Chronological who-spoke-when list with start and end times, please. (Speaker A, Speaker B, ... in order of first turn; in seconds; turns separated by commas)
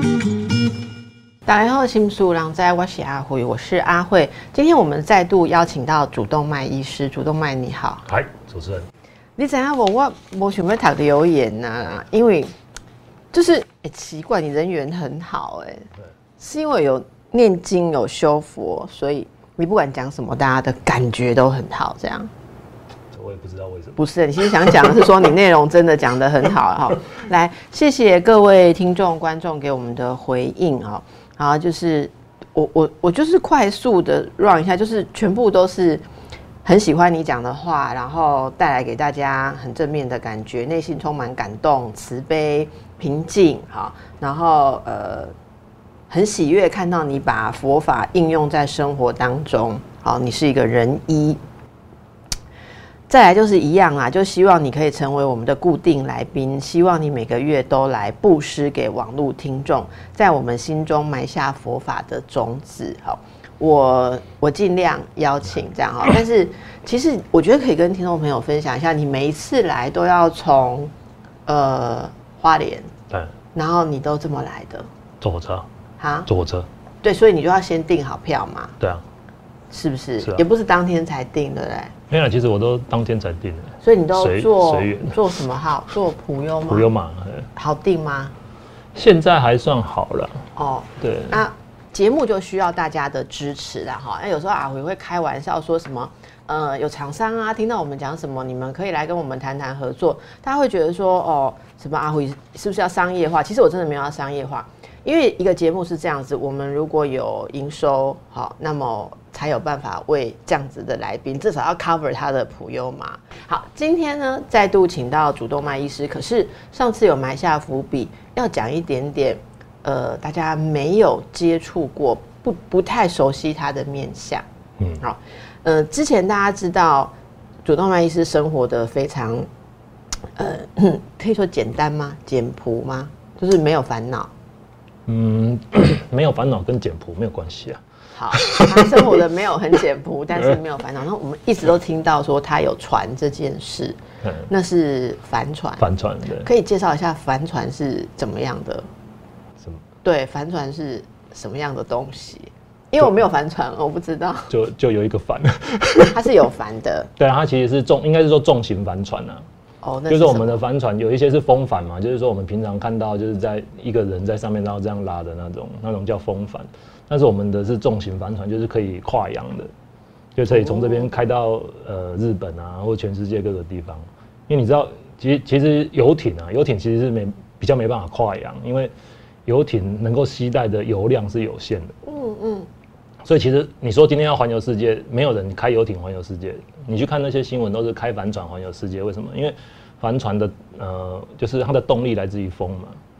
Speaker A: 1.4-8.1, Speaker B: 8.1-8.9, Speaker A: 9.4-12.5, Speaker A: 13.3-15.9, Speaker A: 16.4-22.3, Speaker B: 23.1-24.0, Speaker A: 24.0-36.0, Speaker A: 36.6-45.3, Speaker A: 46.1-51.4, Speaker A: 53.1-70.9, Speaker A: 71.5-72.9, Speaker A: 73.5-74.9, Speaker B: 75.2-75.7, Speaker A: 76.0-76.3, Speaker B: 76.3-76.7, Speaker A: 77.0-78.7, Speaker A: 79.7-81.9, Speaker B: 82.1-85.2, Speaker A: 83.8-86.9, Speaker B: 86.7-87.5, Speaker A: 87.5-88.3, Speaker B: 88.9-90.5, Speaker A: 90.5-124.4, Speaker B: 91.0-91.4, Speaker A: 125.0-127.1, Speaker A: 127.6-129.5, Speaker A: 130.3-134.3, Speaker B: 135.1-139.2, Speaker A: 138.1-145.8, Speaker B: 144.2-144.5, Speaker B: 145.8-146.5, Speaker A: 146.4-148.9, Speaker B: 149.6-149.8, Speaker A: 150.0-154.5, Speaker B: 154.5-156.2, Speaker A: 156.1-157.1, Speaker B: 157.2-159.4, Speaker A: 159.8-160.6, Speaker B: 160.1-169.7, Speaker B: 170.3-178.9, Speaker A: 170.5-171.1, Speaker B: 179.4-181.9, Speaker A: 182.0-182.7, Speaker B: 183.2-193.0